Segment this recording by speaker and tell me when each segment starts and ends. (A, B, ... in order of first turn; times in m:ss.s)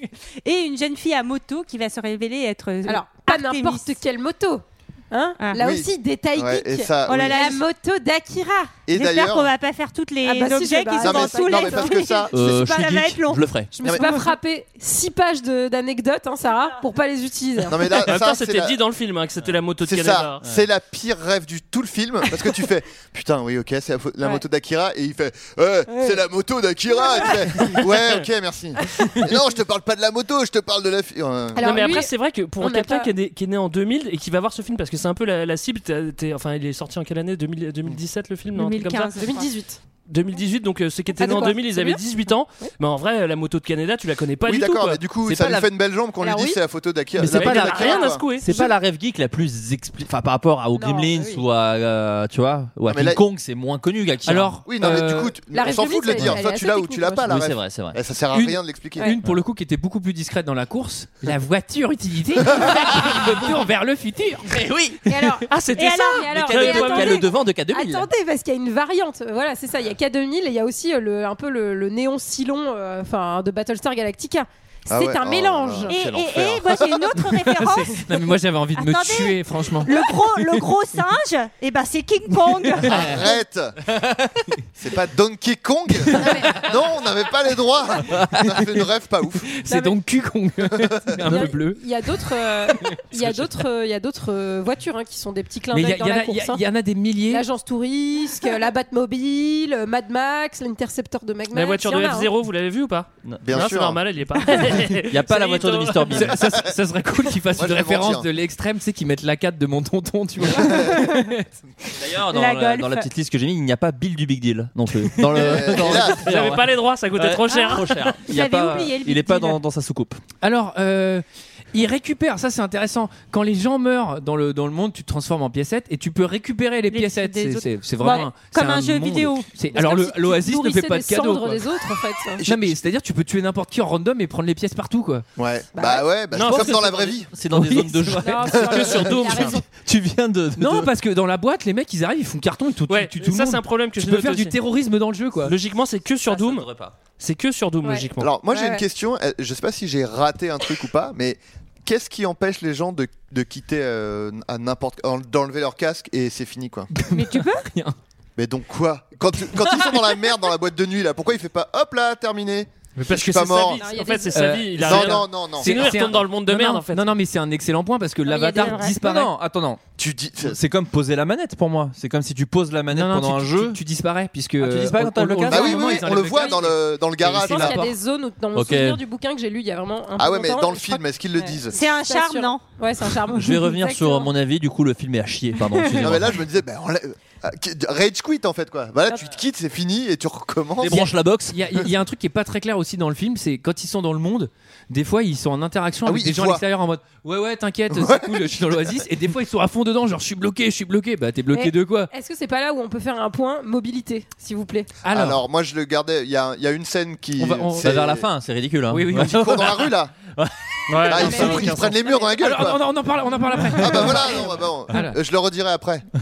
0:00.4-0:04.0 A
0:02.9-0:08.8 B
0:05.6-0:07.6 C
0:07.0-0:07.6 A
0:08.9-0:09.5 C
0:08.9-0:14.3 A
0:10.2-0:12.5 B
0:11.0-0:12.6 C
0:12.3-0:13.7 D
0:13.7-0:18.0 B
0:13.8-0:14.1 C
0:17.7-0:18.8 C
0:18.0-0:20.4 E
0:19.8-0:31.9 C
0:27.2-0:27.8 B
0:31.5-0:33.1 B
0:31.6-0:39.2 E
0:38.5-0:39.5 A
0:39.2-0:39.8 B
0:40.1-0:45.0 E
0:41.1-0:42.0 B
0:44.4-0:48.2 C
0:45.2-0:45.6 D
0:46.2-0:46.6 B
0:47.2-0:54.6 D
0:47.3-0:48.4 E
0:47.8-0:48.7 B
0:50.7-0:51.4 B
0:52.9-0:53.2 C
0:54.3-0:55.3 F
0:54.6-0:59.1 C
0:55.5-0:57.4 B
0:57.3-0:58.0 D
0:58.3-1:04.5 F
1:04.5-1:05.1 D
1:05.1-1:16.0 B
1:05.5-1:07.2 E
1:05.7-1:07.3 A
1:06.3-1:08.1 D
1:14.9-1:17.3 C
1:15.9-1:23.2 A
1:17.7-1:19.9 F
1:22.8-1:23.8 C
1:24.8-1:29.5 C
1:26.2-1:26.5 B
1:28.3-1:28.6 F
1:29.6-1:31.8 F
1:29.7-1:30.0 B
1:31.2-1:36.6 B
1:33.1-1:33.4 F
1:35.7-1:37.4 F
1:37.3-1:42.3 B
1:41.5-1:46.2 E
1:43.4-1:44.0 C
1:45.1-1:46.4 D
1:46.1-1:51.4 F
1:47.5-1:48.3 C
1:50.5-1:50.9 C
1:52.0-2:00.2 D
1:52.3-1:53.1 A
1:55.3-1:56.3 C
1:55.9-1:58.2 E
1:57.5-1:59.6 A
2:00.4-2:11.6 F
2:06.9-2:09.6 A
2:09.7-2:12.4 B
2:12.4-2:15.2 F
2:15.4-2:17.3 C
2:15.7-2:16.0 B
2:16.3-2:17.1 E
2:16.4-2:20.9 D
2:17.5-2:18.4 F
2:18.2-2:19.7 B
2:18.5-2:19.0 C
2:18.7-2:19.6 E
2:20.6-2:25.5 F
2:22.9-2:24.6 E
2:25.4-2:28.3 E
2:26.3-2:27.0 D
2:27.8-2:28.8 B
2:28.2-2:36.9 C
2:36.9-2:38.0 F
2:37.1-2:37.7 A
2:38.4-2:43.8 C
2:43.0-2:47.1 E
2:43.8-2:44.6 B
2:44.3-2:49.3 F
2:44.8-2:45.7 C
2:48.3-2:48.9 B
2:48.3-2:49.0 A
2:49.0-2:49.8 D
2:50.0-2:50.6 C
2:50.5-2:53.8 D
2:52.9-2:57.9 F
2:54.6-2:56.1 D
2:55.5-2:57.8 C
2:56.2-2:56.6 B
2:57.3-3:04.3 B
2:58.5-2:59.0 D
3:00.2-3:01.8 C
3:01.7-3:02.8 A
3:03.3-3:06.4 D
3:06.0-3:11.1 C
3:10.8-3:11.5 D
3:10.8-3:22.1 F
3:16.0-3:16.6 C
3:17.9-3:19.0 C
3:21.5-3:24.9 B
3:25.0-3:25.4 F
3:25.0-3:28.3 C
3:27.4-3:28.0 F
3:27.8-3:30.5 D
3:28.9-3:29.4 F
3:29.2-3:30.1 C
3:30.9-3:31.7 E
3:31.0-3:32.8 C
3:31.1-3:31.8 D
3:31.2-3:31.9 B
3:32.3-3:35.2 F
3:33.8-3:36.1 C